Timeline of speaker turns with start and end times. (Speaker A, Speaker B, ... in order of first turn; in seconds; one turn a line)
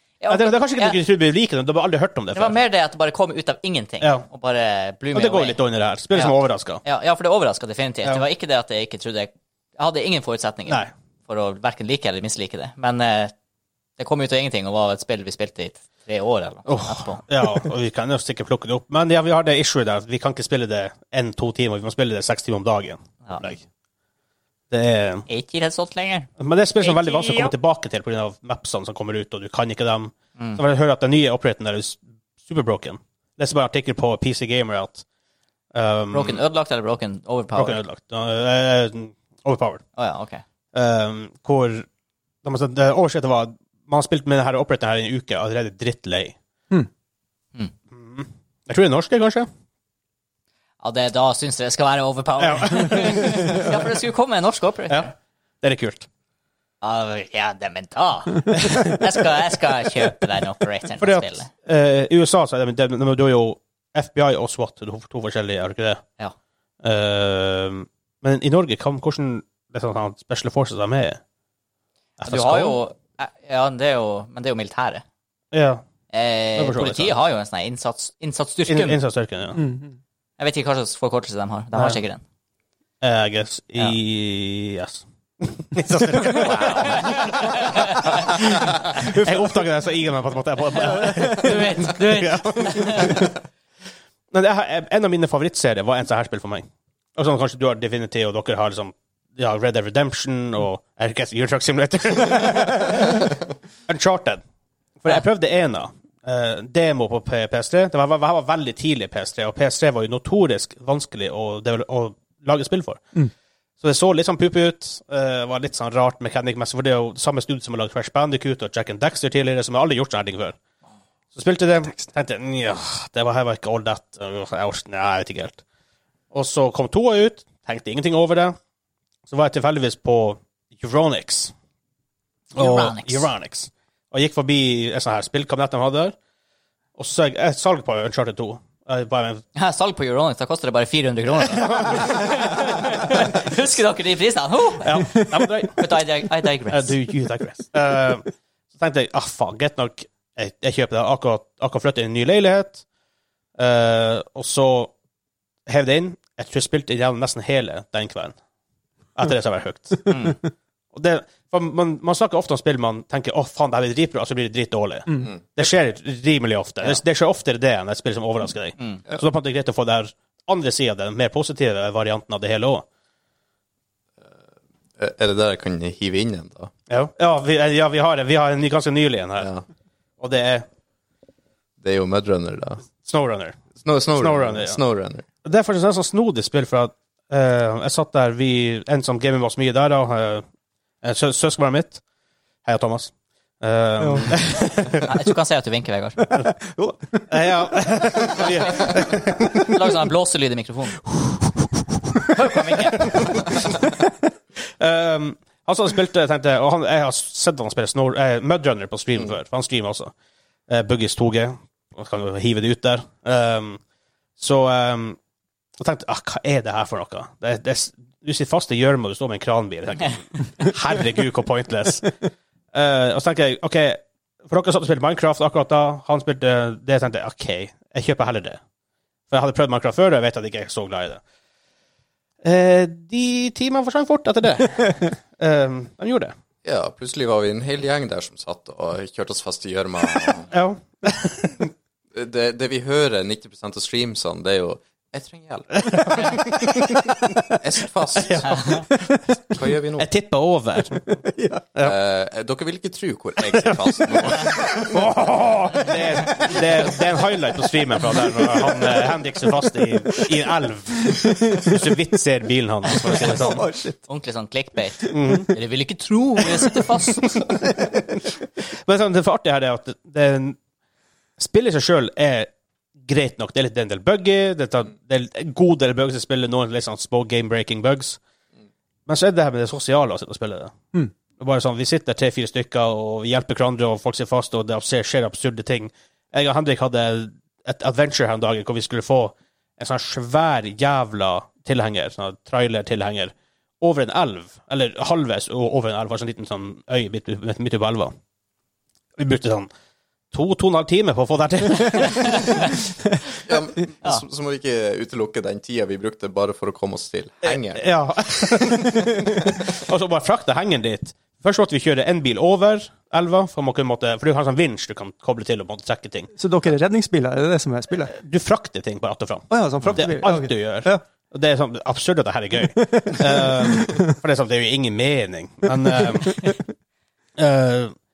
Speaker A: 0.2-1.0
Speaker B: 0.3-2.6
Speaker A: 2.3-5.6
Speaker B: 4.0-4.3
Speaker B: 5.1-6.8
Speaker A: 6.1-13.3
Speaker A: 14.0-17.2
Speaker B: 16.7-23.6
Speaker B: 24.7-25.3
Speaker A: 25.3-26.3
Speaker B: 26.4-35.0
Speaker A: 26.8-27.5
Speaker B: 35.7-36.4
Speaker A: 36.1-37.8
Speaker B: 37.6-39.8
Speaker A: 40.0-40.4
Speaker B: 40.7-41.9
Speaker B: 42.4-46.4
Speaker B: 47.9-49.5
Speaker A: 50.8-55.1
Speaker B: 52.4-53.7
Speaker B: 54.9-56.1
Speaker A: 56.8-61.5
Speaker B: 61.0-66.0
Speaker B: 66.8-71.2
Speaker B: 72.2-72.8
Speaker A: 72.2-75.0
Speaker B: 75.5-75.8
Speaker A: 76.1-79.0
Speaker B: 76.6-77.2
Speaker B: 78.7-79.6
Speaker C: 79.5-80.0
Speaker A: 80.4-82.2
Speaker B: 81.7-82.0
Speaker B: 83.0-93.3
Speaker A: 86.3-88.4
Speaker A: 90.8-93.3
Speaker B: 94.3-96.7
Speaker B: 97.2-103.3
Speaker B: 103.9-104.4
Speaker B: 105.0-113.2
Speaker B: 113.8-120.6
Speaker B: 121.3-125.6
Speaker B: 126.3-128.6
Speaker B: 129.3-131.5
Speaker A: 132.6-133.3
Speaker B: 132.6-136.2
Speaker B: 137.0-139.4
Speaker A: 139.6-145.1
Speaker B: 141.6-142.5
Speaker B: 144.8-145.9
Speaker A: 145.8-146.9
Speaker B: 146.7-148.3
Speaker B: 148.8-152.8
Speaker B: 153.6-154.9
Speaker B: 155.7-158.3
Speaker B: 159.2-160.4
Speaker A: 160.1-160.4
Speaker B: 160.9-172.8
Speaker D: 175.0-176.7
Speaker B: 176.9-179.5
Speaker D: 179.4-179.7
Speaker B: 180.2-180.7
Speaker D: 181.8-182.8
Speaker B: 183.0-183.6
Speaker D: 183.8-185.2
Speaker B: 184.1-184.8
Speaker B: 185.4-190.4
Speaker B: 191.0-192.0
Speaker B: 192.7-195.1
Speaker C: 194.0-194.4
Speaker A: 195.0-196.3
Speaker C: 196.2-197.3
Speaker B: 197.3-199.8
Speaker A: 199.7-201.0
Speaker A: 202.3-203.6
Speaker B: 204.8-210.1
Speaker B: 210.7-213.8
Speaker B: 214.4-215.2
Speaker B: 215.8-222.2
Speaker B: 222.7-228.6
Speaker B: 229.3-231.2
Speaker B: 232.4-236.3
Speaker D: 236.7-240.5
Speaker B: 240.5-241.7
Speaker D: 242.1-248.9
Speaker B: 245.9-246.4
Speaker B: 248.2-248.9
Speaker D: 249.5-250.1
Speaker B: 250.0-251.1
Speaker C: 251.2-251.7
Speaker D: 251.8-254.9
Speaker B: 253.5-263.6
Speaker C: 258.4-258.9
Speaker C: 261.0-261.8
Speaker C: 263.0-264.0
Speaker A: 263.1-263.4
Speaker A: 264.1-267.4
Speaker B: 265.1-265.5
Speaker B: 268.8-270.6
Speaker B: 271.4-272.5
Speaker B: 273.0-278.2
Speaker B: 279.1-280.7
Speaker B: 281.4-298.1
Speaker B: 299.2-299.7
Speaker B: 300.3-302.6
Speaker A: 302.0-302.7
Speaker D: 303.4-308.9
Speaker B: 307.4-316.3
Speaker C: 316.4-318.1
Speaker B: 318.1-326.6
Speaker C: 319.5-321.0
Speaker C: 322.8-324.0
Speaker B: 327.4-327.9